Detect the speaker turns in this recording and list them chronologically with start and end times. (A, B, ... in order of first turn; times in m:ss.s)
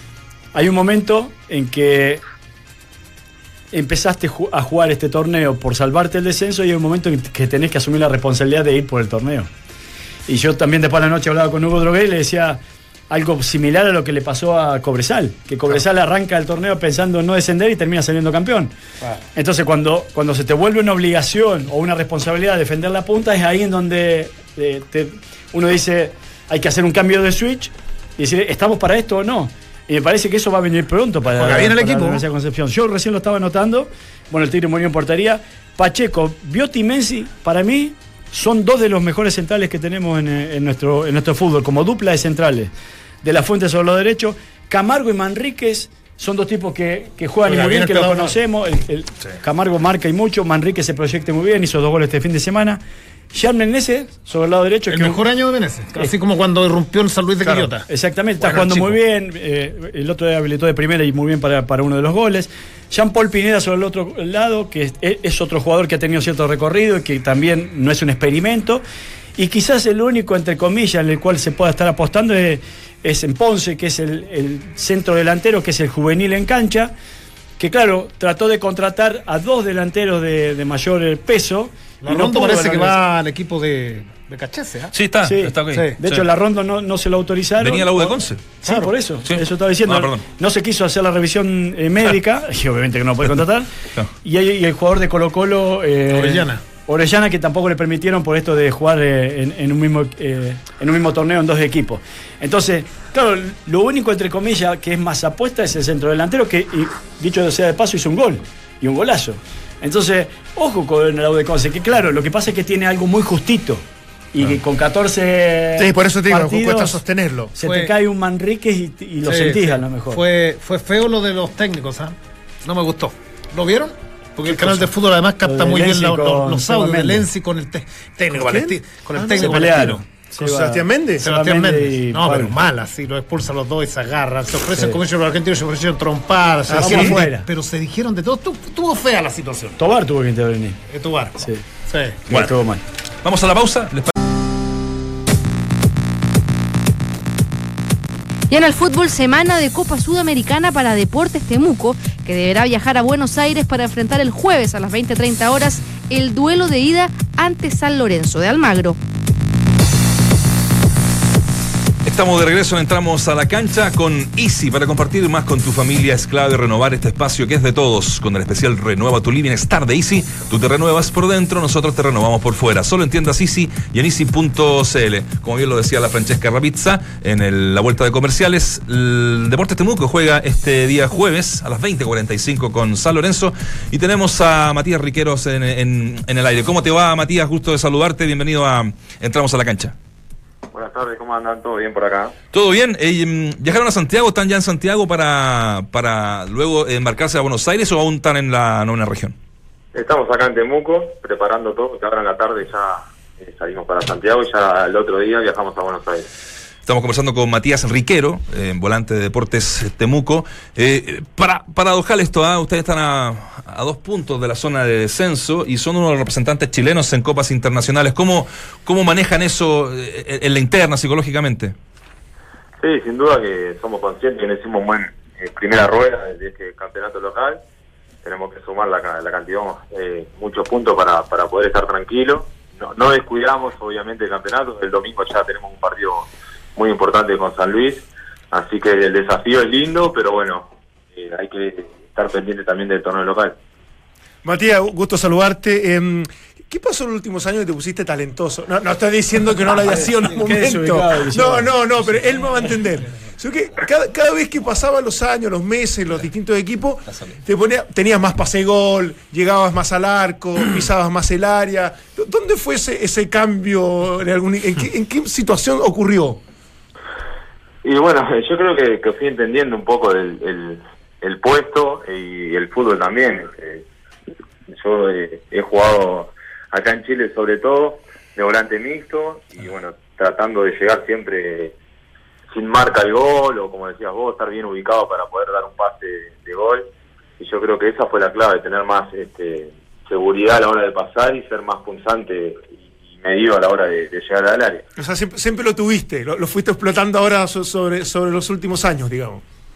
0:00.5-0:02.2 A
0:03.7-0:09.5 A
0:10.3-0:18.7 A
0:19.3-0:42.7 A
0:31.3-0:32.2 B
0:43.2-0:52.8 A
0:47.4-0:48.4 B
0:53.3-0:55.2 A
0:54.9-0:57.9 B
0:57.9-1:08.8 A
0:58.4-0:59.0 B
1:09.4-1:16.9 A
1:17.6-1:22.9 A
1:22.0-1:24.9 B
1:24.9-1:26.2 C
1:25.2-1:33.7 A
1:25.7-1:25.9 B
1:27.6-1:28.4 C
1:28.6-1:28.9 B
1:29.2-1:30.2 C
1:34.2-1:53.8 A
1:36.1-1:36.6 B
1:54.3-1:57.0 A
1:55.8-1:57.5 D
1:57.5-2:00.2 A
1:57.6-1:57.9 B
1:59.2-2:10.0 B
2:04.4-2:04.9 A
2:05.4-2:07.3 A
2:08.3-2:08.8 D
2:09.2-2:12.6 A
2:10.4-2:11.2 D
2:11.2-2:19.8 B
2:16.7-2:17.2 D
2:16.8-2:17.5 A
2:19.8-2:20.8 A
2:20.9-2:22.2 B
2:22.3-2:22.8 A
2:23.2-2:24.1 C
2:28.5-2:39.0 E
2:42.0-3:09.9 C
3:10.7-3:12.3 F
3:12.5-3:19.4 C
3:19.9-3:26.3 F
3:26.8-3:41.7 C
3:42.8-3:47.6 F
3:48.2-4:03.6 F
4:04.4-4:26.4 D
4:10.0-4:11.7 A
4:27.8-4:33.8 F
4:34.8-4:41.7 F
4:42.5-4:46.8 F
4:47.4-4:54.8 F
4:55.0-4:59.4 D